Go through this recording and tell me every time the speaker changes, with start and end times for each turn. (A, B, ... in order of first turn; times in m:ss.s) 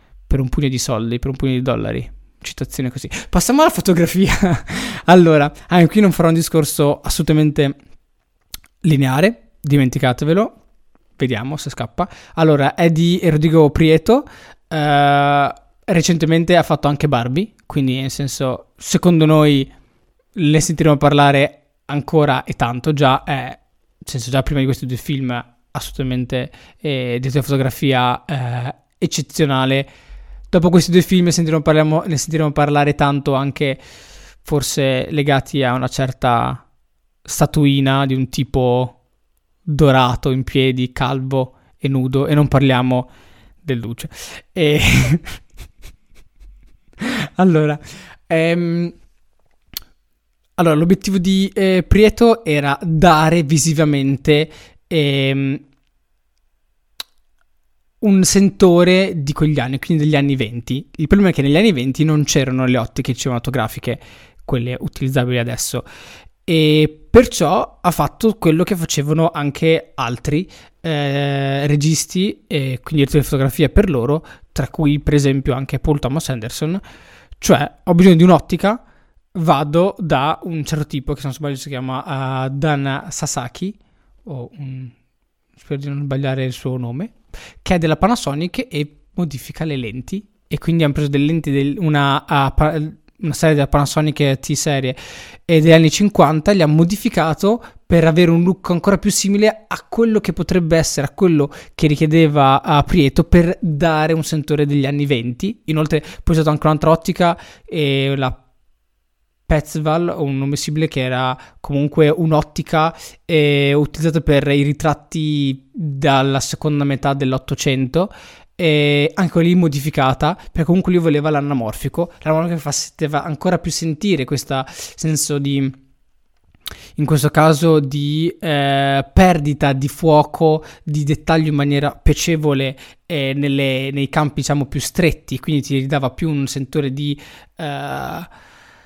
0:00.3-0:07.8 A
0:08.8-0:10.6 A
0:11.2-0:19.7 A
0:20.4-0:29.9 A
0:30.5-0:33.8 A
0:34.4-0:36.6 A
0:37.2-0:39.0 A
0:39.7-0:43.1 A
0:43.6-0:45.4 A
0:47.0-0:49.0 A
0:50.6-0:55.6 A
0:58.0-1:05.8 A
1:06.5-1:16.8 A
1:17.4-1:18.8 A
1:19.3-1:24.9 A
1:25.6-1:48.4 A
1:49.5-2:05.8 A
2:07.0-2:18.3 A